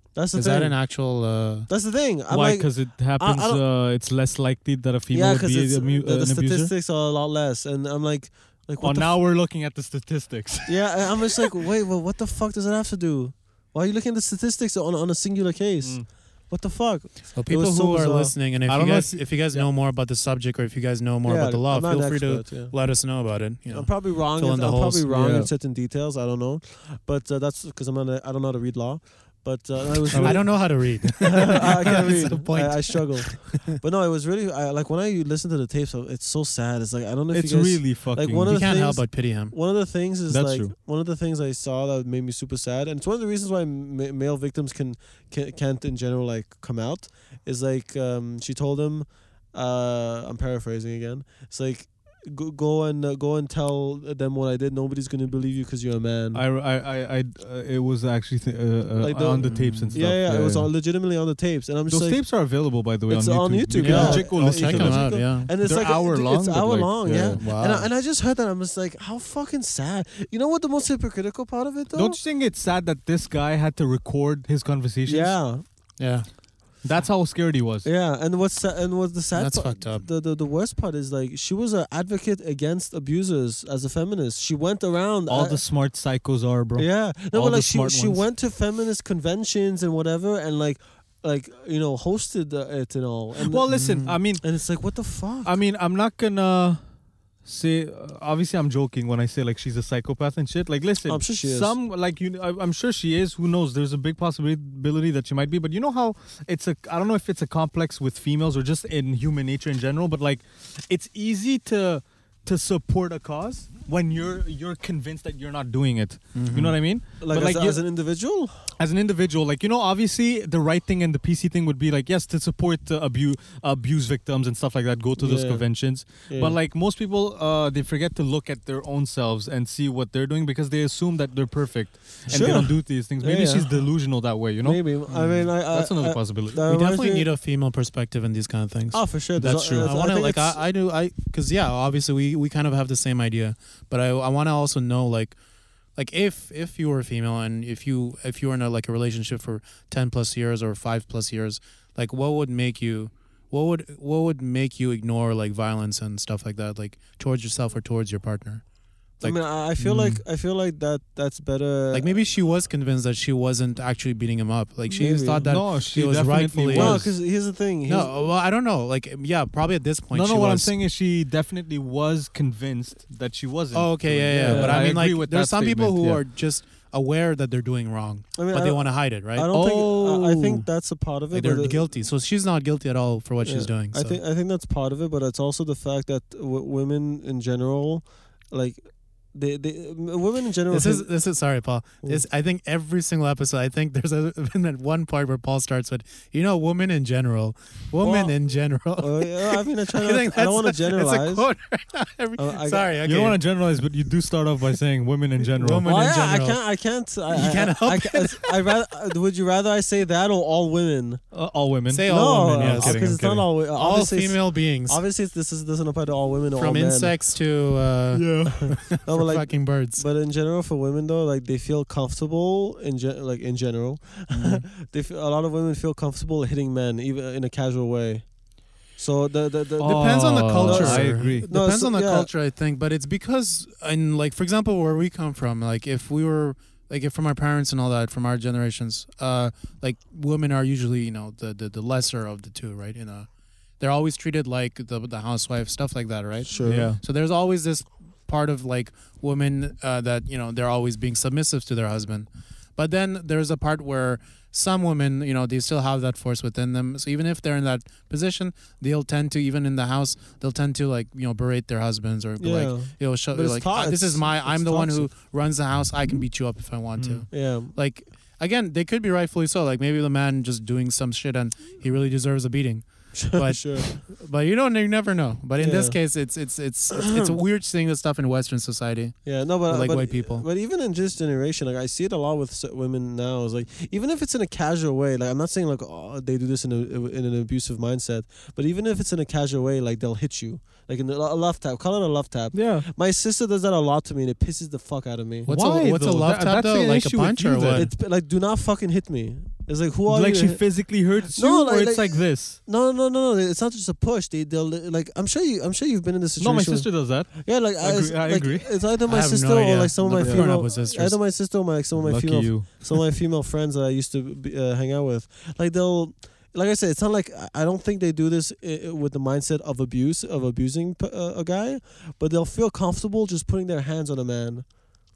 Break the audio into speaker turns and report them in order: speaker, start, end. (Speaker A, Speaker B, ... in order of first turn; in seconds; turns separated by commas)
Speaker A: 0.1-1.0, Speaker B: 0.3-1.7, Speaker A: 1.7-3.6, Speaker C: 2.3-6.7, Speaker A: 5.1-9.2, Speaker C: 8.8-11.3, Speaker A: 10.7-18.4, Speaker C: 15.8-16.1, Speaker B: 17.4-25.1, Speaker C: 18.7-19.7, Speaker A: 21.2-22.8, Speaker A: 23.7-56.4, Speaker C: 25.1-25.5, Speaker C: 30.1-30.5, Speaker B: 30.1-33.8, Speaker C: 37.3-38.6, Speaker B: 38.5-39.5, Speaker C: 40.3-40.7, Speaker C: 56.3-60.7, Speaker A: 59.0-62.2, Speaker B: 59.4-60.0, Speaker C: 61.9-67.4, Speaker A: 63.1-72.2, Speaker B: 63.8-65.5, Speaker B: 67.3-67.9, Speaker C: 71.9-75.4, Speaker A: 75.1-75.6, Speaker B: 76.0-76.3, Speaker C: 76.8-77.9, Speaker A: 77.8-85.6, Speaker B: 79.3-80.0, Speaker C: 85.3-88.2, Speaker A: 86.8-93.8, Speaker C: 93.4-94.4, Speaker B: 93.7-94.1, Speaker A: 94.3-95.6, Speaker C: 95.4-96.8, Speaker C: 97.4-117.8, Speaker A: 101.1-101.8, Speaker B: 116.3-116.8, Speaker A: 117.2-118.6, Speaker C: 118.8-134.8, Speaker A: 125.2-126.6, Speaker B: 132.3-132.6, Speaker A: 132.3-134.0, Speaker A: 134.6-137.3, Speaker B: 135.1-135.5, Speaker C: 135.7-136.6, Speaker B: 136.7-145.4, Speaker A: 138.9-140.6, Speaker C: 139.4-139.9, Speaker B: 146.0-158.6, Speaker B: 159.2-160.2, Speaker A: 159.2-162.1, Speaker B: 161.9-167.2, Speaker A: 164.9-165.5, Speaker C: 165.5-167.1, Speaker A: 166.7-168.1, Speaker B: 167.9-170.7, Speaker C: 170.1-176.2, Speaker B: 173.7-179.5, Speaker A: 174.4-174.9, Speaker A: 178.3-181.9, Speaker C: 179.5-180.7, Speaker B: 181.3-184.2, Speaker A: 183.4-191.3, Speaker B: 190.7-203.4, Speaker A: 198.0-198.3, Speaker A: 199.0-201.5, Speaker A: 202.4-202.9, Speaker C: 203.0-205.9, Speaker B: 205.6-206.6, Speaker A: 205.8-211.2, Speaker B: 207.3-208.8, Speaker C: 211.3-213.3, Speaker B: 211.9-215.0, Speaker A: 212.1-217.1, Speaker B: 216.5-220.0, Speaker C: 218.1-218.8, Speaker A: 218.6-228.3, Speaker B: 224.3-224.6, Speaker A: 228.9-232.3, Speaker C: 229.8-231.5, Speaker B: 229.8-243.3, Speaker B: 243.8-280.5, Speaker A: 246.5-246.9, Speaker C: 246.6-247.0, Speaker A: 262.4-265.1, Speaker C: 267.0-267.3, Speaker A: 267.3-267.7, Speaker A: 273.1-274.0, Speaker A: 275.6-276.0, Speaker A: 276.9-277.3, Speaker A: 279.2-295.5, Speaker C: 292.5-292.9, Speaker B: 295.5-297.9, Speaker C: 295.5-297.9, Speaker A: 297.7-300.6, Speaker C: 300.1-302.6, Speaker A: 301.3-324.6, Speaker C: 306.4-308.7, Speaker B: 309.1-311.2, Speaker C: 310.2-310.5, Speaker C: 312.0-312.7